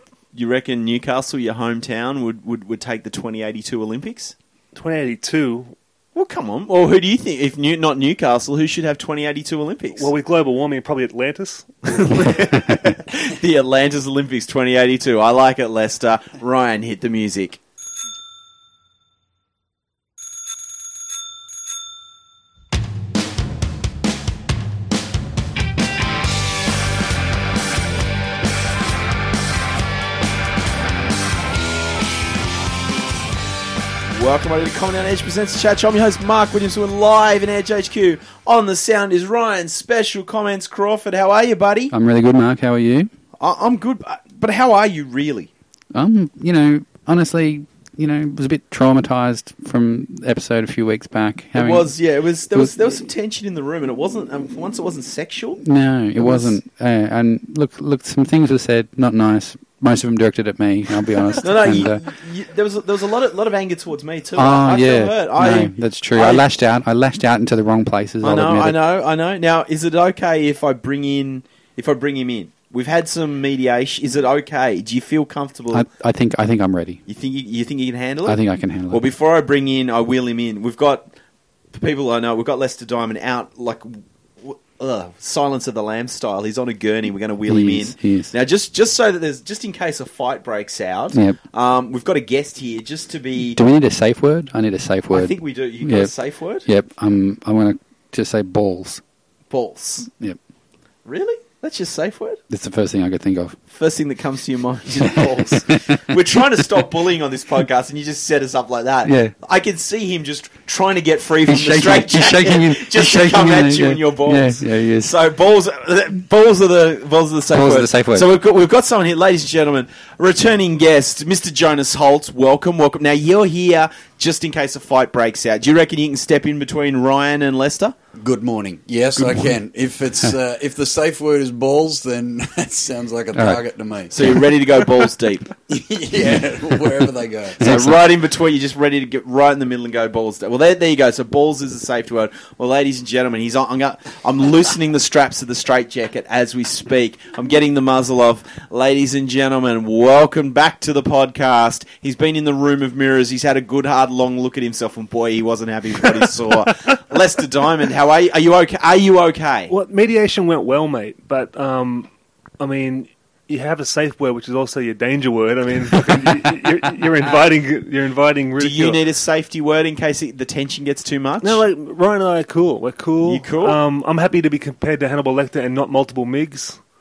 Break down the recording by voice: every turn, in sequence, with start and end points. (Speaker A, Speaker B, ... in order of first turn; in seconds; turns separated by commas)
Speaker A: 0.3-4.3, Speaker B: 4.8-5.7, Speaker A: 6.2-10.1, Speaker B: 10.0-12.3, Speaker A: 11.9-17.6, Speaker A: 34.1-41.9, Speaker C: 41.9-43.1, Speaker A: 43.4-45.5, Speaker C: 45.9-51.9, Speaker A: 51.5-55.6, Speaker C: 55.6-62.0, Speaker A: 56.2-56.6, Speaker A: 61.4-66.5, Speaker C: 64.4-68.8, Speaker A: 68.2-75.9, Speaker C: 75.7-77.0, Speaker A: 77.1-78.4, Speaker C: 78.3-79.0, Speaker A: 78.9-81.1, Speaker A: 81.7-93.6, Speaker C: 87.5-88.3, Speaker C: 91.1-91.4, Speaker C: 93.5-96.1, Speaker A: 95.1-96.7, Speaker C: 96.7-99.0, Speaker A: 99.5-100.1, Speaker C: 100.1-100.4, Speaker A: 101.0-102.4, Speaker C: 102.5-103.6, Speaker A: 103.7-128.0, Speaker C: 105.1-106.0, Speaker C: 109.0-109.3, Speaker C: 111.5-115.1, Speaker C: 117.5-118.3, Speaker D: 128.2-134.5, Speaker C: 133.3-133.6, Speaker A: 134.1-135.5, Speaker D: 135.7-137.9, Speaker C: 137.6-138.0, Speaker A: 137.6-159.7, Speaker B: 159.7-162.1, Speaker B: 162.6-169.0, Speaker A: 168.6-171.6, Speaker B: 171.4-176.8, Speaker A: 173.2-173.8